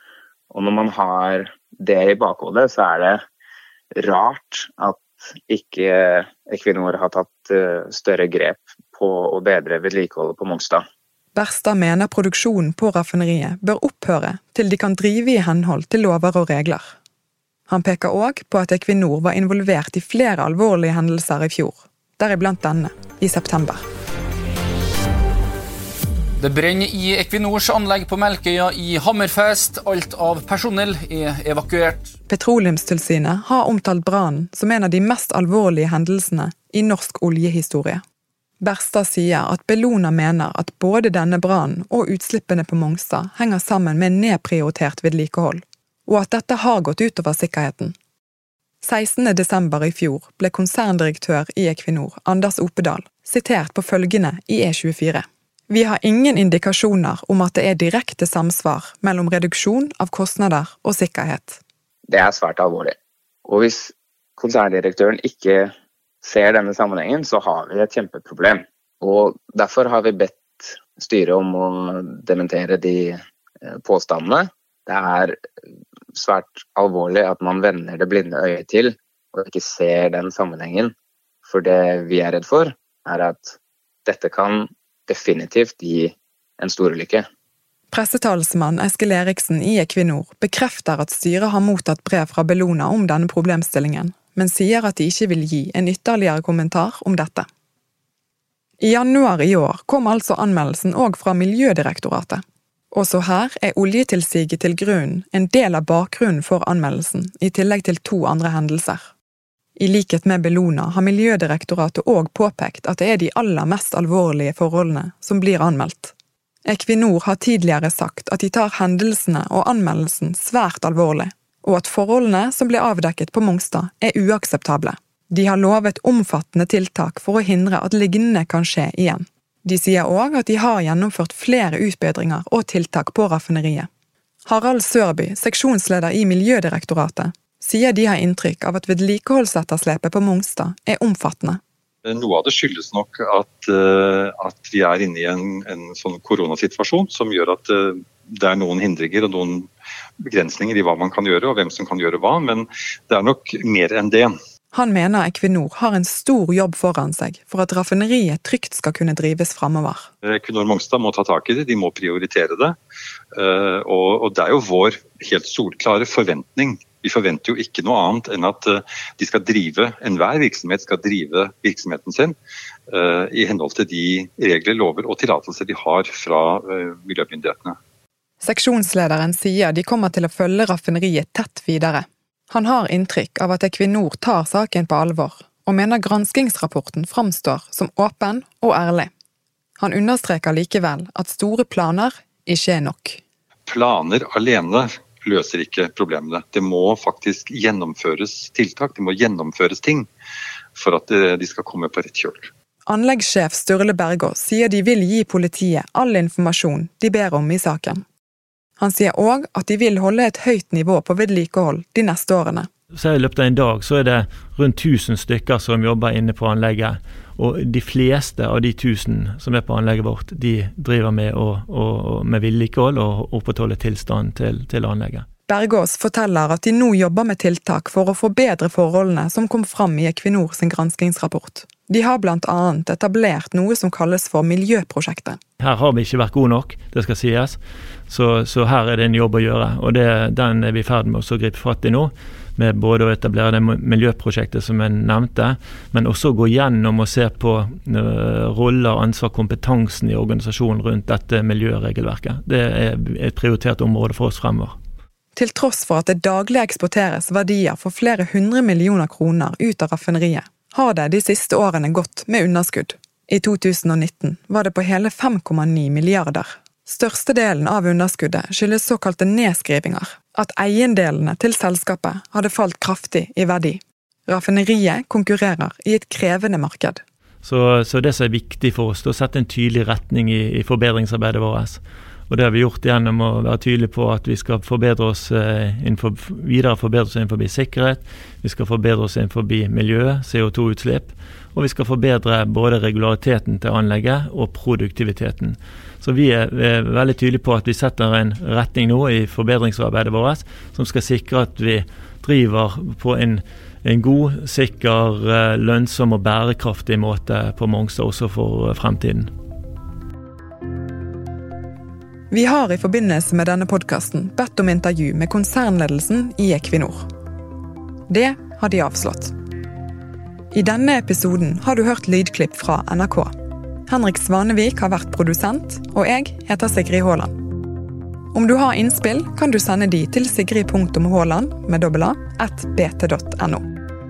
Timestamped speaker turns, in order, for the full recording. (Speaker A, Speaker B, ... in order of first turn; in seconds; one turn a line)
Speaker A: 0.5-3.2
Speaker A: 4.0-10.8
Speaker B: 11.3-16.9
Speaker B: 17.7-23.8
Speaker C: 26.4-32.1
Speaker B: 32.3-38.0
Speaker B: 38.6-48.0
Speaker B: 48.8-61.6
Speaker A: 62.1-63.0
Speaker A: 63.5-65.7
Speaker A: 66.2-75.4
Speaker A: 76.1-80.9
Speaker A: 81.5-87.3
Speaker B: 87.9-97.5
Speaker B: 98.8-102.4
Speaker B: 102.9-109.1
Speaker B: 109.8-116.1
Speaker B: 116.7-133.9
Speaker B: 134.5-141.6
Speaker D: 142.1-149.7
Speaker D: 150.2-154.3
Speaker B: 154.7-160.1
Speaker D: 160.2-162.8
Speaker D: 163.3-172.4
Speaker D: 172.9-177.8
Speaker B: 178.4-189.1
Speaker B: 189.8-193.2
Speaker D: 193.7-200.1
Speaker D: 200.8-202.5
Speaker B: 202.9-208.0
Speaker B: 208.8-212.7
Speaker E: 212.9-225.3
Speaker B: 225.5-235.4
Speaker E: 235.6-254.8
Speaker B: 255.3-277.0
Speaker E: 277.4-309.3
Speaker B: 312.3-317.1
Speaker B: 318.1-319.3
Speaker B: 320.5-323.3
Speaker B: 323.9-327.3
Speaker B: 328.3-333.7